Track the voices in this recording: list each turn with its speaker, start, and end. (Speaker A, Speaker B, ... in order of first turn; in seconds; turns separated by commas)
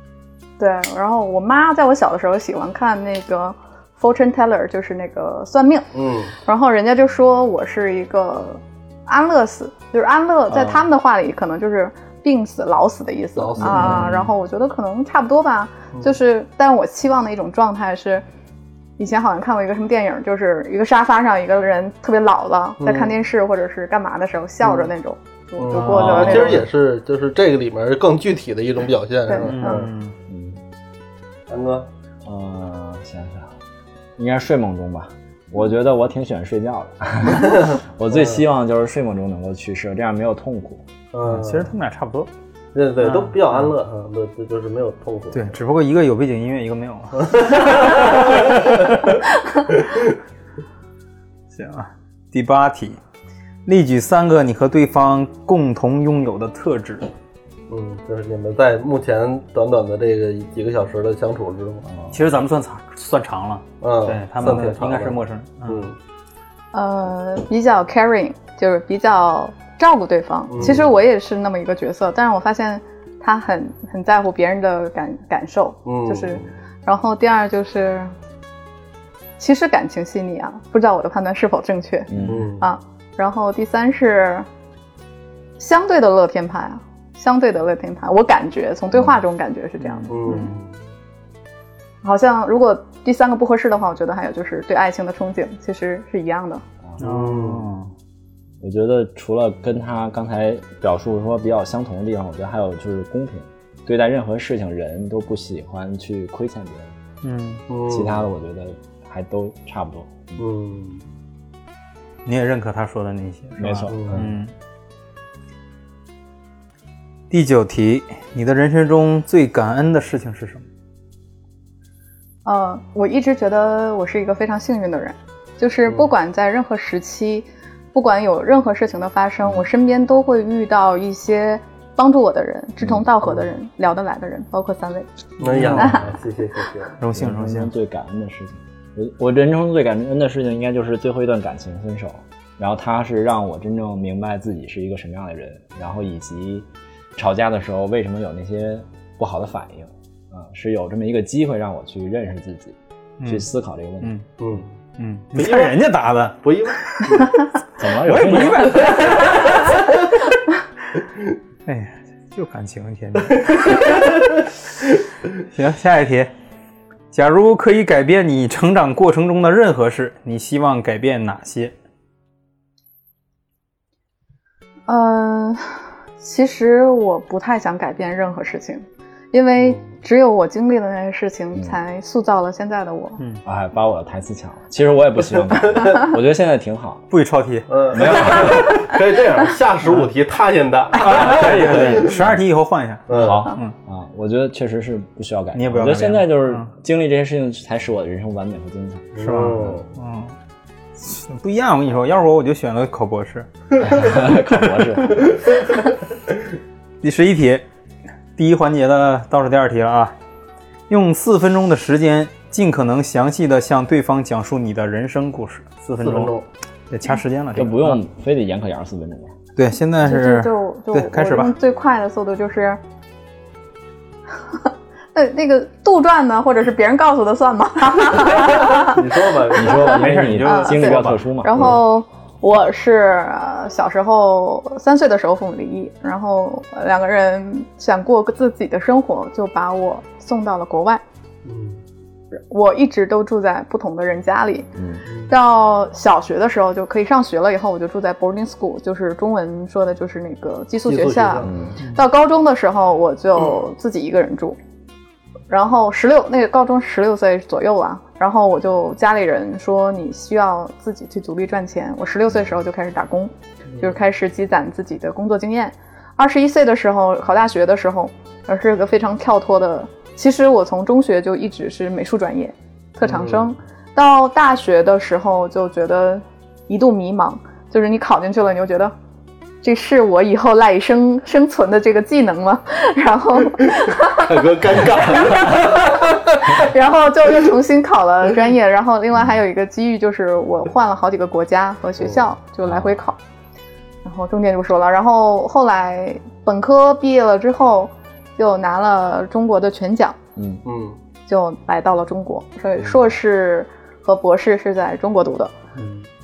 Speaker A: 0.6-5.9, Speaker B: 5.9-6.3, Speaker A: 6.4-18.2, Speaker C: 10.5-10.9, Speaker B: 13.3-14.1, Speaker D: 13.6-14.1, Speaker C: 13.7-14.3, Speaker A: 19.0-26.6, Speaker B: 22.8-23.1, Speaker B: 24.6-24.9, Speaker B: 25.6-29.9, Speaker C: 25.7-26.6, Speaker D: 25.9-26.6, Speaker A: 29.3-29.9, Speaker C: 29.4-30.2, Speaker D: 30.3-30.6, Speaker B: 31.5-31.9, Speaker D: 32.2-33.5, Speaker D: 34.2-40.8, Speaker B: 37.4-38.4, Speaker B: 41.1-41.7, Speaker C: 41.2-42.3, Speaker B: 42.7-45.5, Speaker C: 43.0-43.7, Speaker C: 45.3-49.1, Speaker B: 47.2-48.7, Speaker C: 51.5-53.0, Speaker C: 53.6-57.1, Speaker B: 57.7-61.9, Speaker D: 61.9-62.2, Speaker C: 62.1-65.9, Speaker B: 63.8-65.2, Speaker B: 65.7-65.9, Speaker A: 66.7-78.1, Speaker B: 70.5-70.9, Speaker B: 75.8-76.5, Speaker A: 79.4-84.5, Speaker D: 82.1-82.5, Speaker B: 82.2-82.7, Speaker A: 85.6-90.5, Speaker D: 88.9-89.2, Speaker C: 89.8-90.6, Speaker B: 90.1-90.7, Speaker A: 92.0-96.6, Speaker B: 97.0-97.7, Speaker C: 97.0-97.9, Speaker D: 98.6-106.9, Speaker C: 107.2-107.6, Speaker B: 107.7-108.3, Speaker D: 107.8-110.4, Speaker B: 110.4-111.0, Speaker C: 112.2-114.5, Speaker D: 113.6-114.3, Speaker B: 113.9-114.2, Speaker C: 117.3-120.7, Speaker A: 122.4-135.1, Speaker B: 125.8-126.1, Speaker D: 132.8-133.1, Speaker B: 133.2-133.5, Speaker B: 135.4-137.0, Speaker C: 135.4-136.0, Speaker C: 137.0-137.7, Speaker D: 137.1-154.1, Speaker C: 153.2-153.5, Speaker C: 154.0-154.3, Speaker B: 154.4-154.7, Speaker C: 155.0-157.0, Speaker B: 155.3-155.8, Speaker B: 156.4-157.3, Speaker D: 157.8-158.9, Speaker C: 158.0-159.6, Speaker B: 158.9-159.5, Speaker C: 161.7-164.1, Speaker C: 165.4-166.3, Speaker C: 167.1-171.7, Speaker A: 174.9-183.2, Speaker D: 183.4-187.1, Speaker C: 187.1-187.7, Speaker B: 187.7-192.1, Speaker D: 187.9-188.8, Speaker C: 190.9-193.7, Speaker D: 191.6-192.3, Speaker B: 193.1-193.4, Speaker D: 193.1-199.8, Speaker C: 195.5-196.7, Speaker B: 199.1-199.9, Speaker C: 199.2-200.3, Speaker C: 201.0-203.5, Speaker D: 203.8-205.3, Speaker C: 204.0-205.2, Speaker C: 207.0-207.6, Speaker C: 208.3-210.1, Speaker C: 210.9-216.3, Speaker B: 216.0-216.4, Speaker C: 216.9-218.0, Speaker D: 217.6-219.3, Speaker C: 219.6-221.5, Speaker A: 220.0-222.8, Speaker A: 224.5-229.0, Speaker B: 228.7-230.2, Speaker D: 229.5-231.8, Speaker A: 229.6-229.9, Speaker C: 229.8-231.2, Speaker A: 230.4-241.0, Speaker B: 241.4-241.8, Speaker A: 242.3-244.7, Speaker D: 244.8-245.0, Speaker A: 245.3-254.6, Speaker B: 250.9-251.6, Speaker D: 251.4-251.8, Speaker A: 255.5-278.9, Speaker B: 263.7-263.9, Speaker B: 273.0-273.5, Speaker A: 279.6-284.5, Speaker B: 284.1-286.6, Speaker A: 285.1-293.2, Speaker B: 292.0-292.2, Speaker D: 292.6-293.0, Speaker A: 294.0-300.2, Speaker D: 300.4-300.6, Speaker B: 300.6-301.0, Speaker A: 301.3-305.5, Speaker B: 305.8-306.0